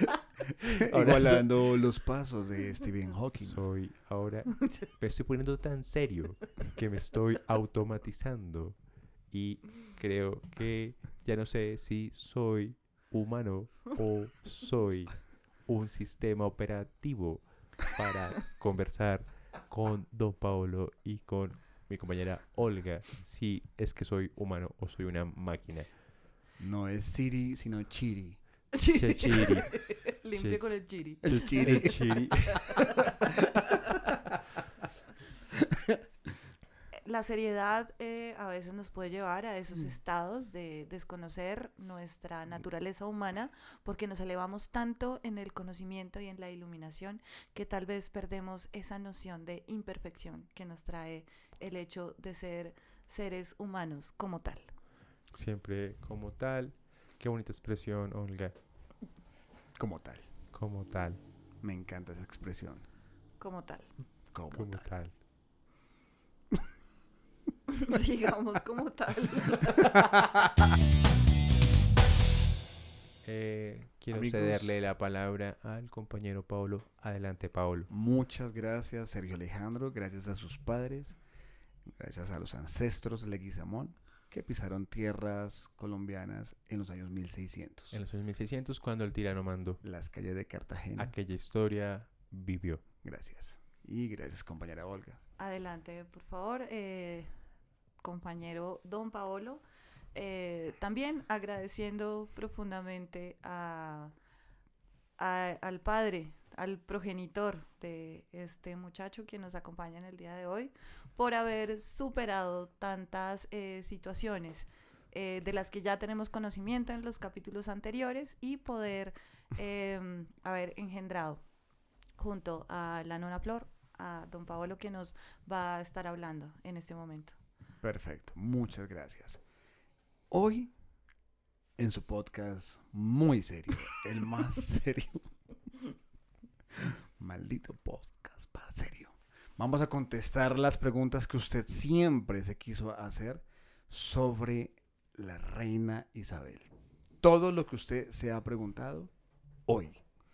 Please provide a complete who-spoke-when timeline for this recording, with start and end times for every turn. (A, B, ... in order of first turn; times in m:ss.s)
0:00.6-0:03.6 A
0:00.8-0:01.4 B
0:03.3-0:08.8 B
0:09.3-0:25.9 B
0:26.6-0:28.4 A
0:28.7-0:32.8 C
0:29.0-0:29.8 B
0:30.3-0:32.8 B
0:31.2-0:32.3 A
0:35.7-0:36.0 A
0:37.0-0:54.7 C
0:55.3-0:58.5 B
0:59.8-1:00.3 A
1:00.5-1:01.2 B
1:01.6-1:02.8 A
1:03.4-1:03.9 C
1:04.3-1:04.9 A
1:04.5-1:05.1 B
1:07.7-1:09.9 C
1:13.2-1:17.9 B
1:14.1-1:14.8 A
1:17.9-1:21.2 A
1:21.9-1:28.0 A
1:27.9-1:29.8 B
1:29.8-1:31.1 A
1:31.0-1:32.8 B
1:33.0-1:35.2 A
1:35.4-1:37.3 C
1:38.0-1:39.6 C
1:40.1-1:44.1 C
1:45.2-2:01.4 C
2:02.2-2:07.3 C
2:07.8-2:09.4 A
2:10.3-2:10.7 A
2:11.8-2:15.3 A
2:16.7-2:26.7 A
2:27.2-2:29.1 A
2:29.6-2:30.0 A